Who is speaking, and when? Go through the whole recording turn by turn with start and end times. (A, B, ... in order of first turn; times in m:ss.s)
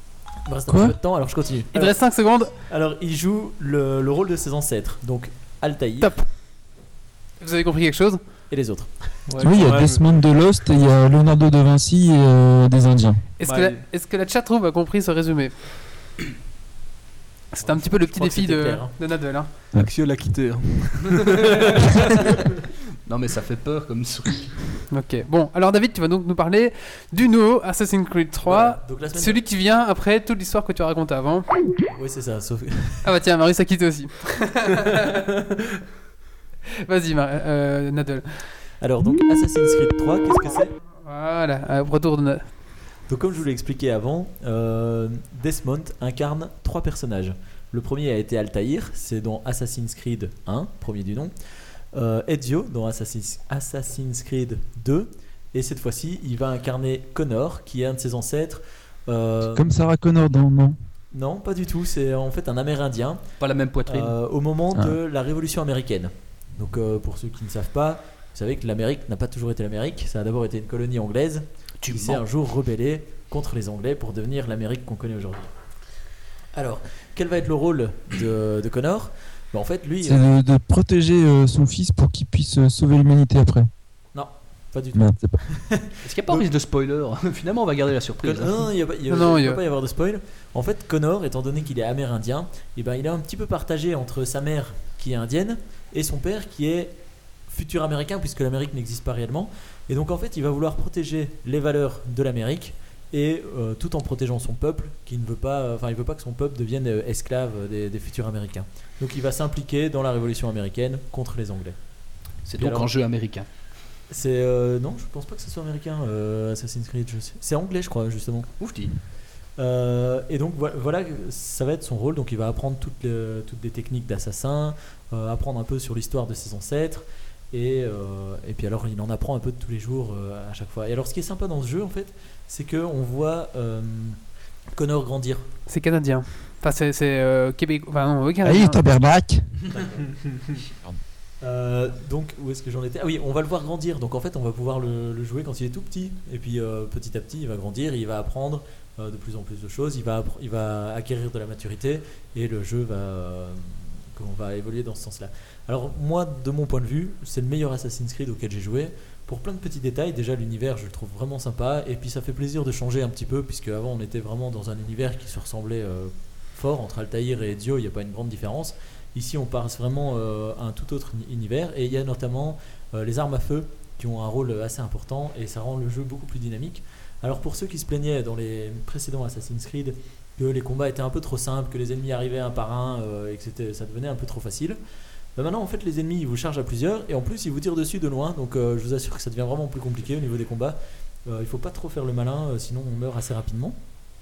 0:00.4-0:06.2 A
0:00.7-0:01.0 B
0:01.7-0:02.5 C
0:06.0-0:06.3 C
0:07.4-0:08.2 C
0:08.5-0:09.2 A
0:09.3-0:10.1 D
0:09.4-0:13.2 B
0:13.4-0:15.5 C
0:13.4-0:13.8 D
0:17.5-0:19.5 C
0:17.6-0:19.0 A
0:19.7-0:21.7 D
0:23.0-0:24.8 E
0:24.9-0:31.5 C
0:28.4-0:29.4 A
0:31.9-0:33.0 A
0:33.0-0:34.9 C
0:36.8-0:38.5 C
0:38.8-0:40.7 A
0:41.0-0:42.4 C
0:43.1-0:59.7 A
0:59.5-1:00.8 B
1:01.1-1:03.3 A
1:03.4-1:04.2 E
1:03.8-1:15.5 A
1:04.7-1:05.0 B
1:11.8-1:12.2 E
1:16.5-1:20.2 A
1:20.0-1:23.7 B
1:24.1-1:26.4 A
1:24.9-1:25.7 B
1:26.0-1:28.7 E
1:28.2-1:52.9 A
1:29.1-1:29.6 C
1:52.4-1:53.5 E
1:54.1-1:58.5 A
1:58.6-1:58.9 E
1:59.6-2:15.4 A
2:15.7-2:18.9 C
2:18.4-2:19.6 B
2:19.7-2:20.0 A
2:21.4-3:04.8 A
3:05.3-3:13.8 A